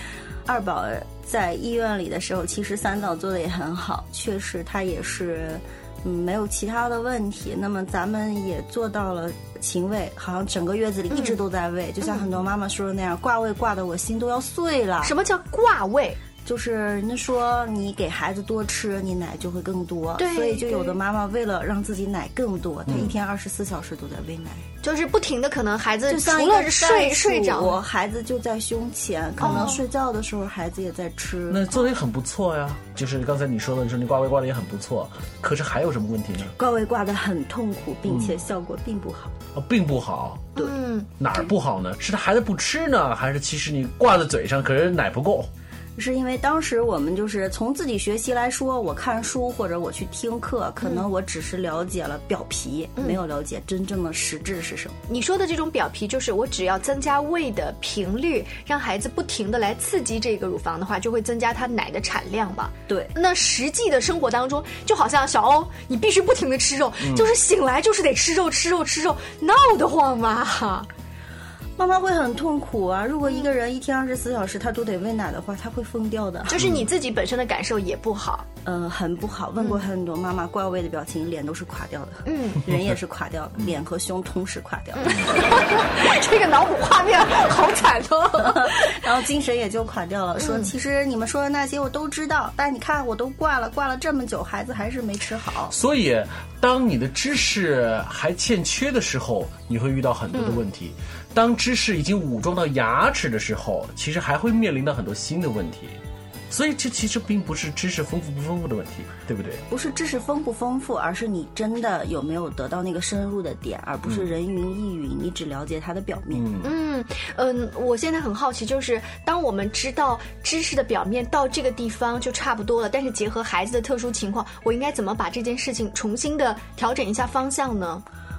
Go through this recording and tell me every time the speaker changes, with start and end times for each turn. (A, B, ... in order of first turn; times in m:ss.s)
0:00.4-0:15.2 A
0:11.1-0:11.4 B
0:12.0-0:12.3 B
0:15.0-0:16.2 B
0:16.4-0:24.7 A
0:20.2-0:21.0 B
0:22.9-0:23.1 C
0:24.8-0:27.8 B
0:26.1-0:31.8 A
0:29.4-0:29.8 B
0:31.5-0:36.6 C
0:36.6-0:39.3 A
0:38.1-0:38.4 C
0:39.5-0:40.6 C
0:40.6-0:41.1 B
0:41.2-0:45.5 C
0:46.0-0:55.0 A
0:55.1-1:10.9 B
1:02.9-1:03.1 A
1:07.0-1:07.3 C
1:11.8-1:16.7 A
1:16.5-1:18.5 B
1:16.6-1:16.9 C
1:18.6-1:25.4 A
1:19.6-1:19.8 B
1:22.3-1:22.7 B
1:25.0-1:29.1 B
1:28.4-1:35.8 A
1:30.4-1:30.7 B
1:35.7-1:46.0 C
1:40.3-1:40.6 B
1:46.5-1:49.6 C
1:49.7-1:56.5 A
1:54.1-1:54.3 C
1:56.3-1:56.7 C
1:56.6-2:08.0 B